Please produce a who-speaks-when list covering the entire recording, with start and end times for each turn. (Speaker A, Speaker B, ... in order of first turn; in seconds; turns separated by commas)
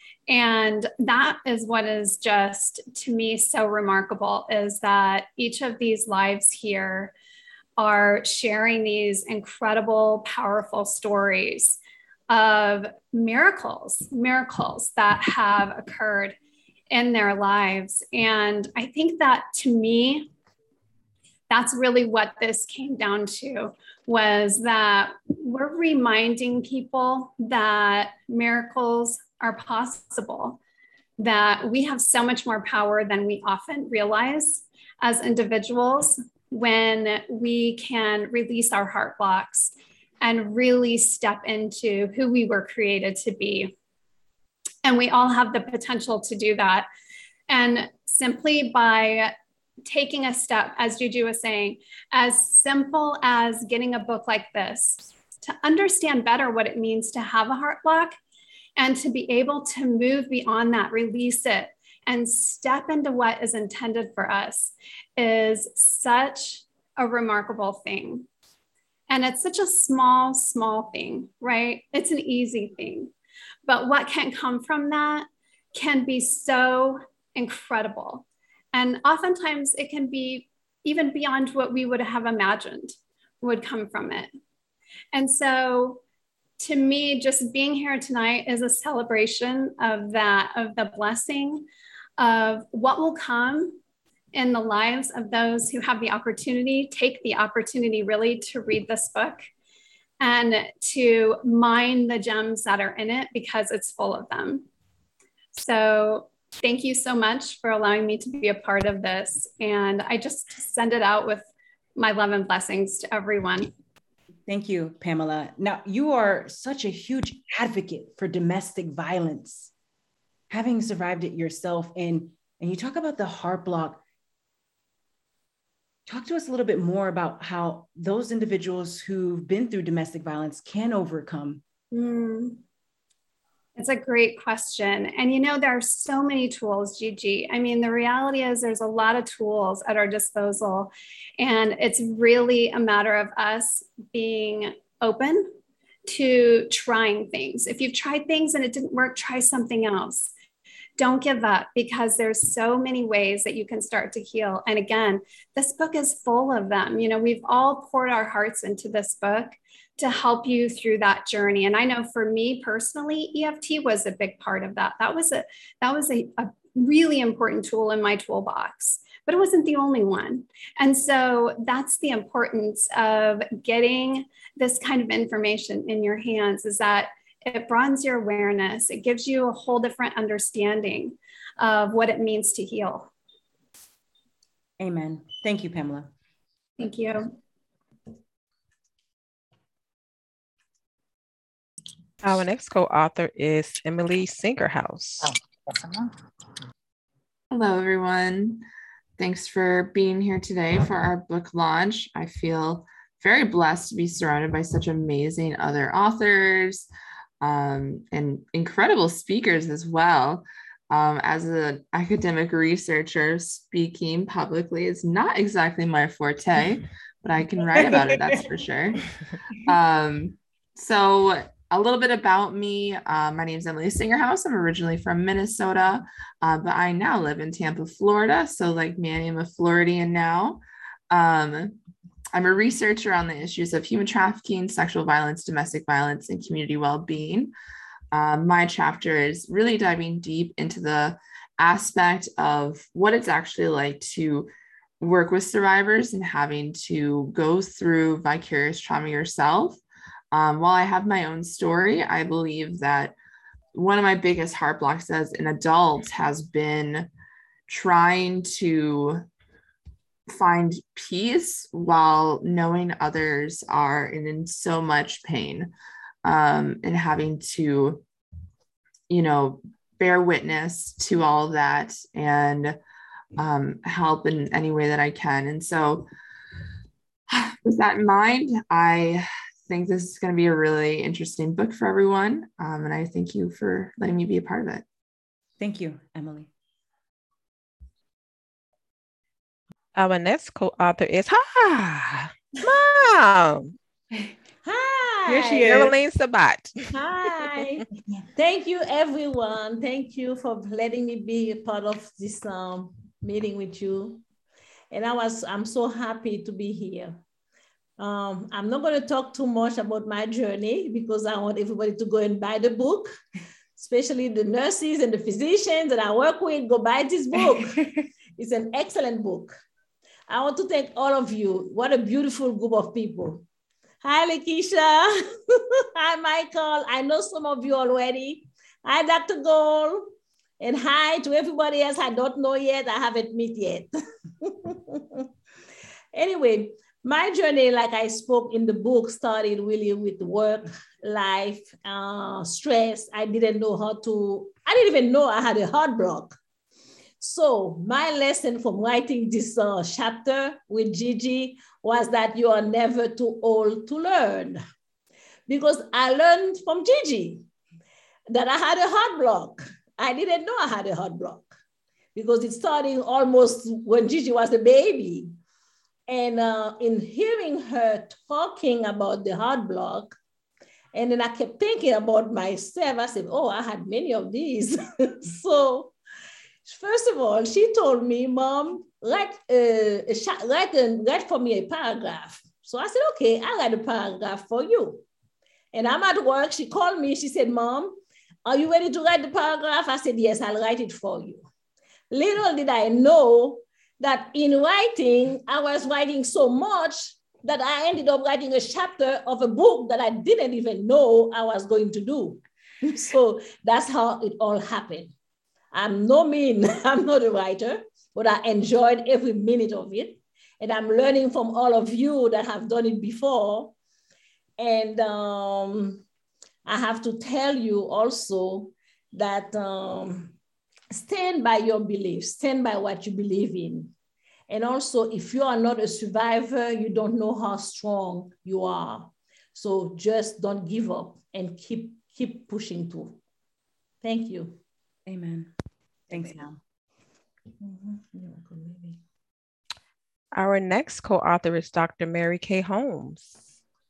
Speaker A: 0.3-7.1, Speaker A: 7.8-16.4, Speaker A: 16.9-20.3, Speaker A: 21.5-30.6, Speaker A: 31.2-43.7, Speaker A: 44.8-46.9, Speaker A: 47.5-49.3, Speaker A: 49.8-58.2, Speaker A: 58.8-68.3, Speaker A: 69.1-73.1, Speaker A: 73.7-84.3, Speaker A: 85.1-86.0, Speaker A: 86.6-91.7, Speaker A: 92.2-93.8, Speaker A: 94.3-99.5, Speaker A: 100.2-104.7, Speaker A: 105.5-113.7, Speaker B: 114.5-119.7, Speaker B: 120.5-124.0, Speaker B: 126.0-131.6, Speaker A: 131.9-132.6, Speaker A: 133.8-145.5, Speaker A: 146.1-150.3, Speaker A: 151.0-183.1, Speaker B: 184.8-186.1, Speaker A: 186.8-187.3, Speaker C: 192.2-195.3, Speaker D: 197.5-198.6, Speaker D: 199.2-206.9, Speaker D: 207.4-219.0, Speaker D: 219.7-231.8, Speaker D: 232.3-237.5, Speaker D: 238.1-253.2, Speaker D: 253.7-257.1, Speaker D: 257.7-259.2, Speaker D: 260.3-265.7, Speaker D: 266.2-268.0, Speaker D: 269.1-272.8, Speaker D: 273.4-276.1, Speaker D: 277.3-284.8, Speaker B: 285.6-286.5, Speaker C: 289.9-293.7, Speaker E: 294.6-295.7, Speaker B: 295.2-295.9, Speaker C: 295.6-296.8, Speaker E: 296.9-297.8, Speaker E: 298.3-304.2, Speaker E: 304.9-307.2, Speaker E: 308.0-313.1, Speaker E: 313.8-317.8, Speaker E: 318.4-319.6, Speaker E: 320.3-323.4, Speaker E: 324.0-335.2, Speaker E: 336.1-346.4, Speaker E: 347.2-354.6, Speaker E: 355.5-357.4, Speaker E: 358.3-361.5, Speaker E: 362.1-365.3, Speaker E: 366.1-370.1, Speaker E: 370.9-375.9, Speaker E: 376.6-385.0, Speaker E: 385.7-391.5, Speaker E: 392.1-405.1, Speaker E: 405.7-413.7, Speaker E: 414.6-416.0, Speaker E: 416.6-420.4, Speaker E: 420.9-423.9, Speaker E: 424.5-433.2, Speaker E: 434.0-434.6, Speaker B: 435.1-435.5, Speaker B: 436.1-436.6, Speaker E: 437.6-439.0, Speaker C: 440.3-443.4